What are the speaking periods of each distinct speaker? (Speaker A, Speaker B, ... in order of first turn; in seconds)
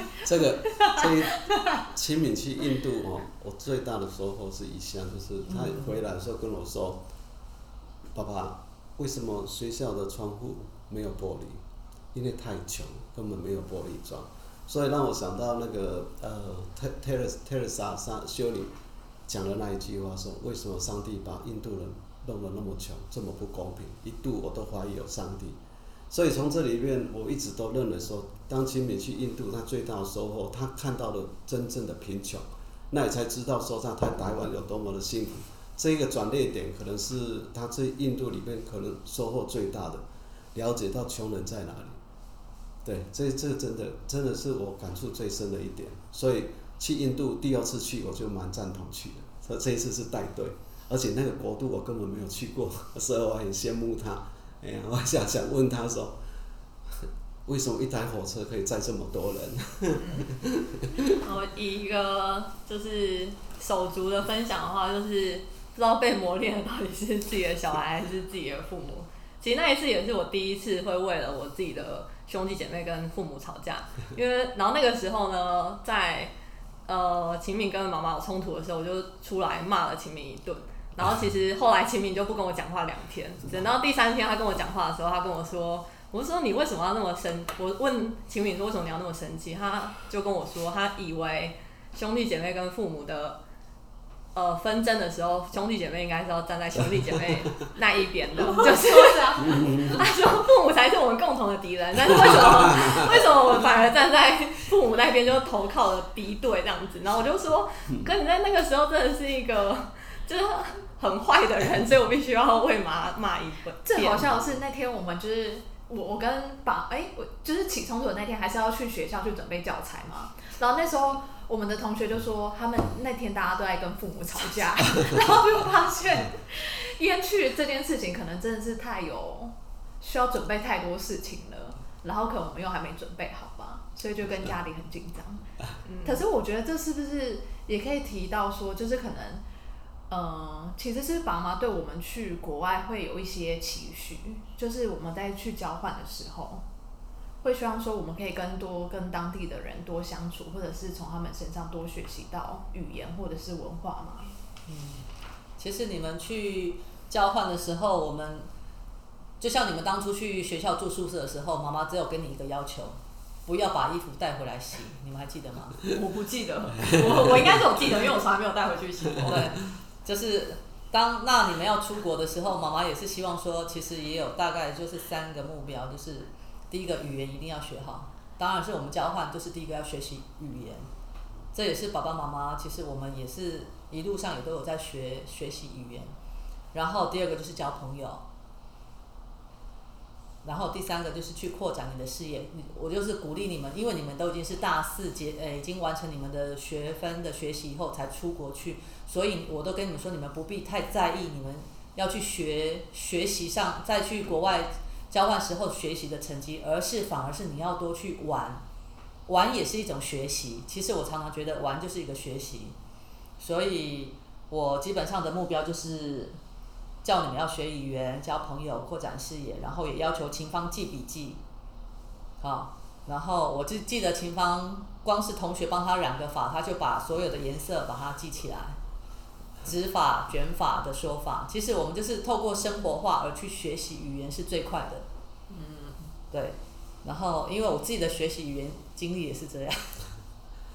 Speaker A: 0.2-7.0, 8.1-11.6, 12.1-18.7, 19.3-25.6, 26.1-42.0, 42.9-56.2, 56.9-60.9, 99.4-99.9
Speaker B: 61.2-76.3, 76.9-93.4, 94.3-114.2, 135.8-136.2, 165.9-169.6, 235.5-236.1
Speaker C: 98.5-100.0, 113.8-135.5, 136.0-139.4, 140.1-146.6, 147.4-154.3
Speaker D: 154.7-158.5, 159.4-165.8, 169.3-180.9, 181.5-186.2, 186.7-188.2, 190.4-208.6, 209.3-212.8, 213.4-216.4, 217.0-221.4, 222.4-228.8, 229.6-235.1, 236.3-240.0